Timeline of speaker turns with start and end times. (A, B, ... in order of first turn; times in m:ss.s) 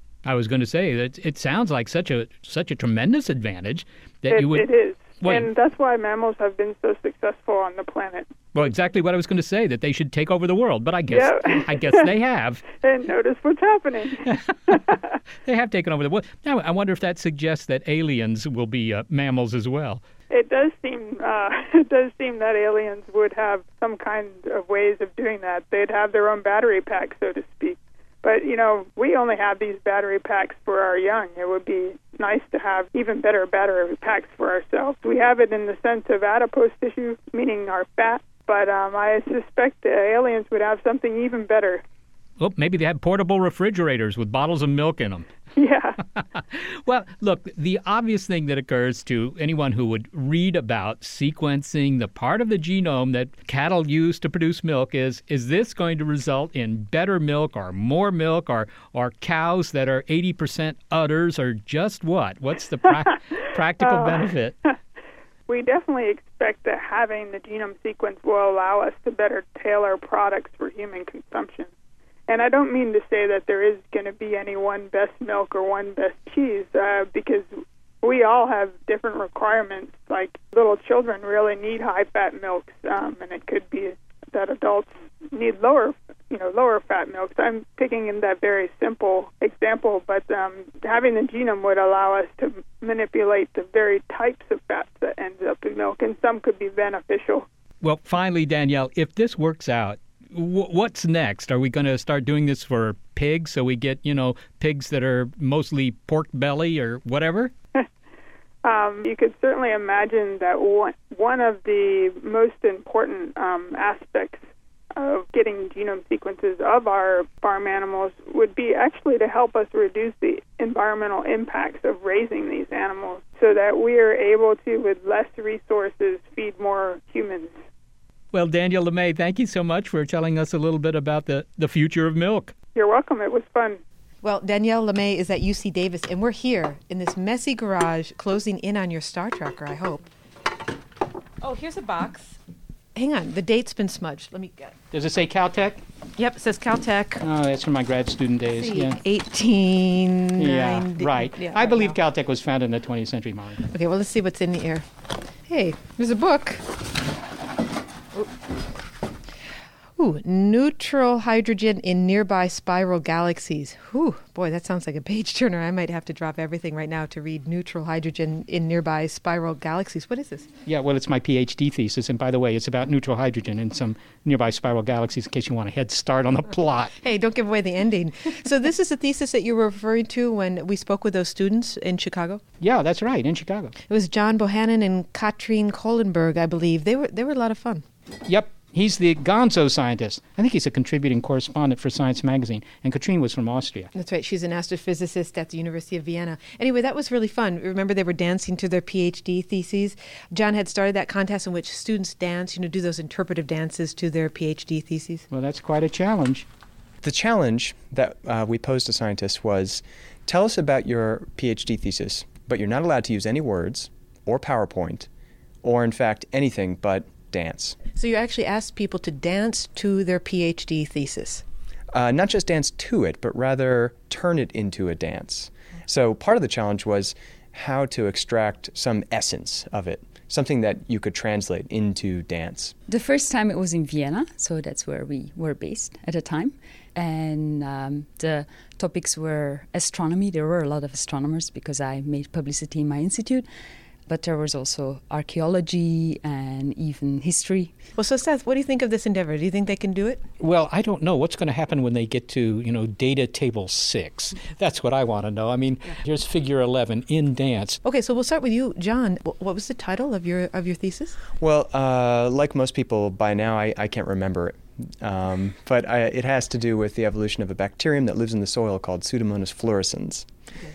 0:00.2-0:05.5 A
0:04.3-0:08.3 B
0:08.5-0:12.6 A
0:11.1-0:12.1 B
0:12.7-0:15.2 B
0:14.2-0:14.8 A
0:15.4-0:20.0 A
0:20.3-0:41.8 B
0:42.4-0:45.3 A
0:45.6-0:46.0 B
0:46.2-1:04.6 A
1:03.8-1:04.3 B
1:05.5-1:11.7 B
1:12.3-1:17.5 B
1:18.0-1:37.4 B
1:37.8-1:47.5 A
1:48.6-1:54.4 B
1:55.0-2:07.5 B
2:08.3-2:12.5 A
2:12.7-2:13.8 B
2:14.2-2:20.0 C
2:21.4-2:22.4 C
2:22.9-2:24.7 C
2:24.9-2:25.8 A
2:26.2-2:27.2 C
2:27.2-2:29.0 A
2:28.4-2:32.0 C
2:30.4-2:33.6 A
2:33.7-2:34.9 C
2:35.4-2:36.8 C
2:40.0-2:50.5 C
2:50.6-2:56.9 A
2:57.0-3:02.4 C
3:02.6-3:03.7 A
3:03.9-3:07.8 C
3:08.3-3:13.9 A
3:13.9-3:25.2 C
3:25.3-3:26.4 A
3:27.0-3:35.1 D
3:35.6-3:37.8 D
3:37.9-3:41.4 C
3:41.9-3:52.7 D
3:52.9-4:03.5 E
4:04.1-4:07.7 E
4:08.0-4:10.2 C
4:10.4-4:17.8 A
4:17.8-4:21.2 C
4:21.4-4:30.3 D